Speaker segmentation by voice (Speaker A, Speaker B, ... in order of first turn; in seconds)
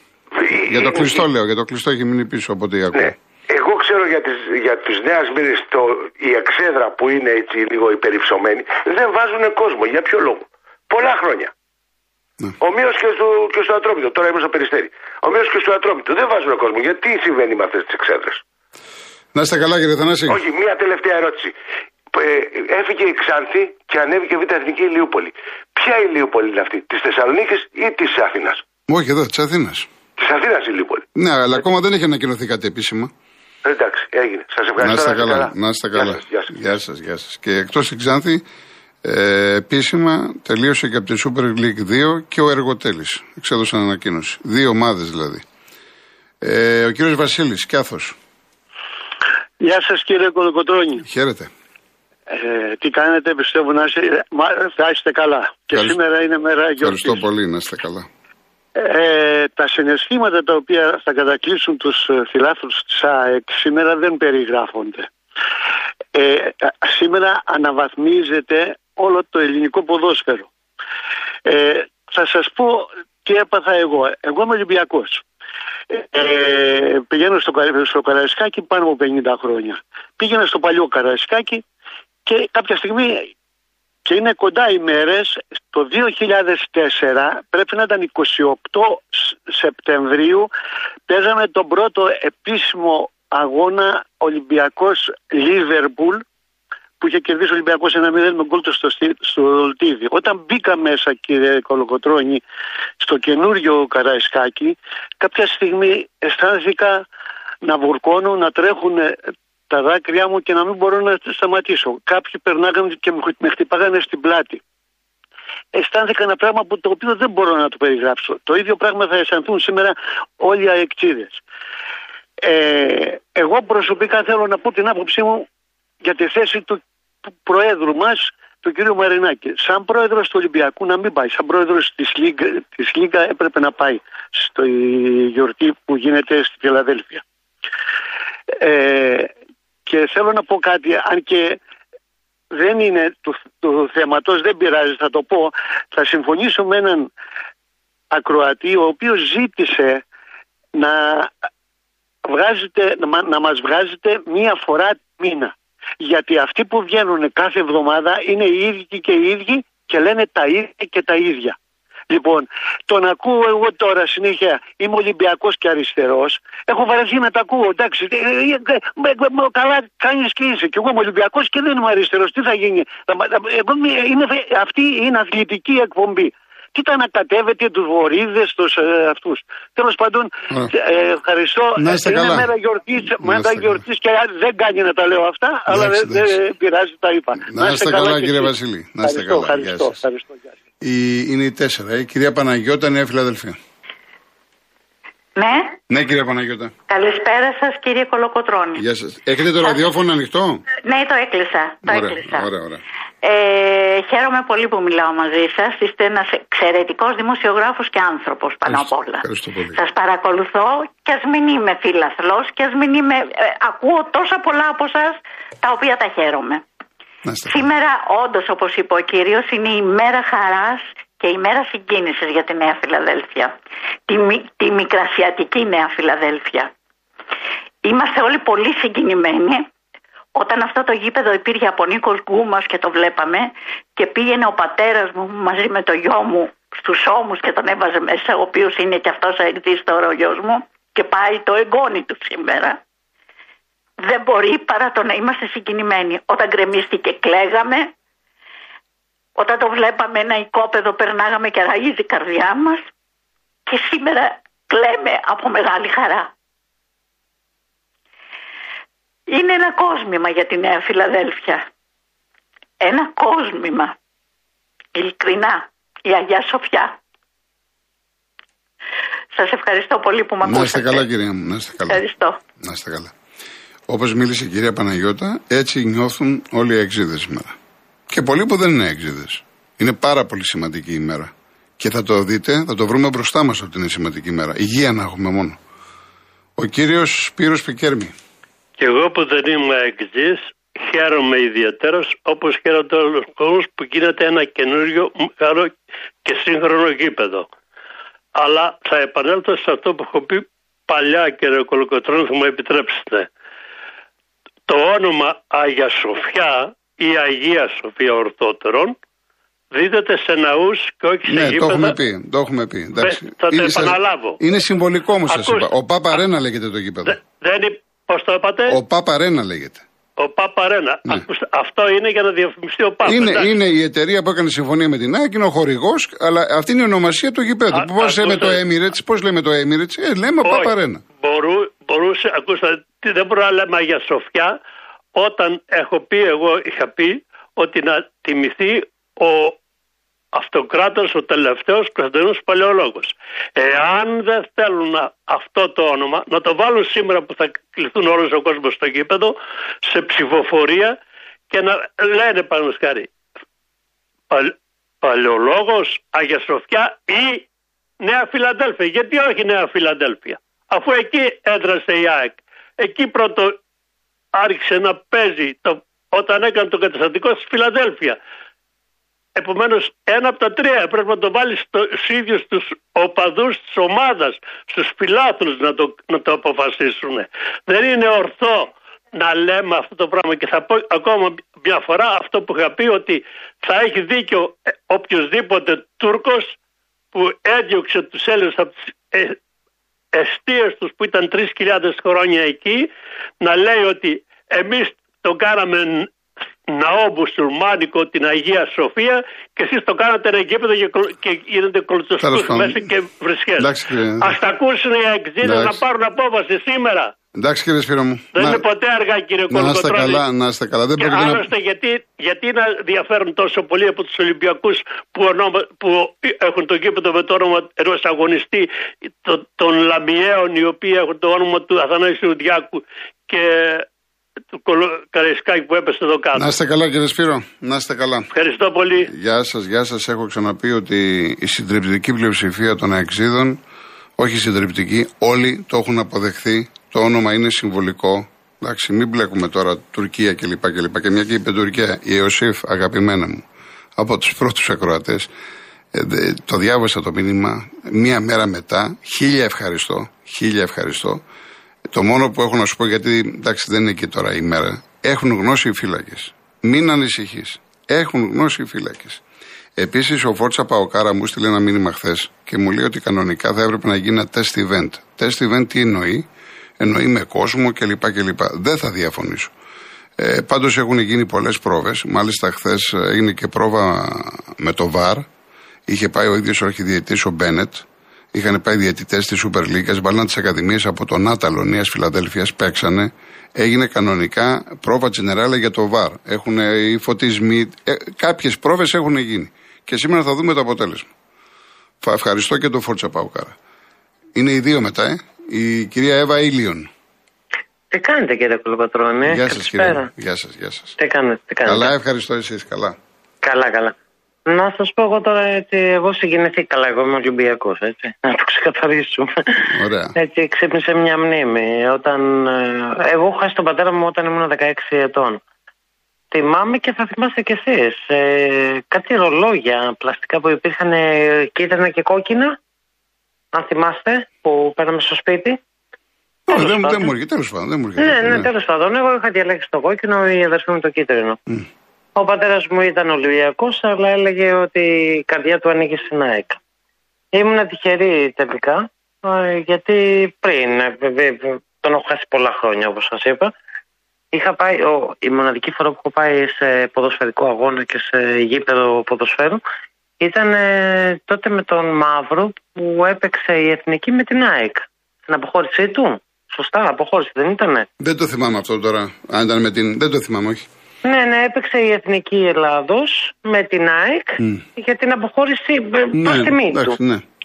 Speaker A: 0.6-3.1, 19.3-20.4, 28.9-29.9, 31.2-33.1, 34.8-38.4, 39.0-45.4, 46.4-48.2, 51.0-51.5, 55.7-56.0, 56.8-58.1, 181.8-182.5, 183.1-183.9, 185.7-186.4, 187.4-190.0, 190.8-193.6, 195.9-196.7, 198.8-200.7, 201.8-202.8, 208.6-209.8, 217.2-217.7, 270.4-272.0, 272.6-273.1, 273.9-277.6, 278.1-285.6, 286.6-288.1, 311.3-317.2, 318.7-319.8, 323.0-331.0, 402.2-402.9, 403.6-404.4, 405.4-405.8, 407.4-408.7, 409.5-411.5, 426.4-428.3, 429.0-433.6, 434.2-443.4, 444.0-445.3, 445.9-451.2, 451.9-459.2, 459.8-466.3, 466.8-469.5, 470.2-475.3, 475.9-491.1, 492.0-493.6, 494.4-496.9, 499.2-501.0, 501.6-502.9, 509.7-510.1, 526.5-528.5, 558.0-560.7, 564.4-564.6, 566.1-567.2
Speaker B: 3.0-11.5, 12.6-18.4, 20.4-21.6, 22.1-28.6, 30.2-31.0, 33.6-35.5, 36.1-36.5
Speaker C: 49.6-51.0, 52.3-57.2, 58.8-65.1, 66.2-70.5, 71.5-75.2, 75.9-81.6, 82.3-83.3, 84.1-90.5, 91.1-96.2, 97.0-102.4, 103.0-107.1, 107.6-109.2, 109.7-114.6, 115.7-121.4, 122.4-125.5, 126.0-126.8, 127.5-137.2, 138.6-139.3, 139.9-141.6, 142.5-147.1, 148.1-150.0, 150.8-151.3, 152.3-161.6, 162.1-190.6
Speaker D: 195.4-195.8, 196.9-198.8, 199.6-199.8, 200.8-202.5, 203.2-216.6, 217.5-223.6, 224.1-226.7, 227.8-229.7, 230.3-242.8, 244.0-247.9, 249.4-252.8, 253.7-256.3, 259.3-261.7, 262.8-264.0, 264.9-267.0, 269.4-271.1, 271.9-272.4
Speaker E: 288.8-295.7, 296.2-297.5, 298.4-303.3, 304.7-309.0, 309.7-312.0, 313.0-314.4, 315.3-316.2, 317.1-318.8, 320.2-323.5, 327.7-328.6, 330.4-334.5, 335.1-339.6, 340.3-351.0, 351.5-353.1, 354.3-357.5, 358.0-363.6, 364.4-368.2, 369.4-386.6, 387.1-389.4, 390.1-392.9, 393.4-396.1, 396.7-403.7, 404.2-407.1, 408.4-410.2, 411.0-418.7, 419.2-423.9, 424.5-426.5, 428.3-429.1
Speaker F: 497.9-500.1, 501.0-501.9, 503.4-503.9, 504.5-509.6, 510.2-515.4, 516.3-522.6, 523.5-525.6, 526.5-527.1, 528.0-531.4, 532.1-536.6, 537.3-543.5, 544.3-549.6, 550.2-557.9, 561.0-567.0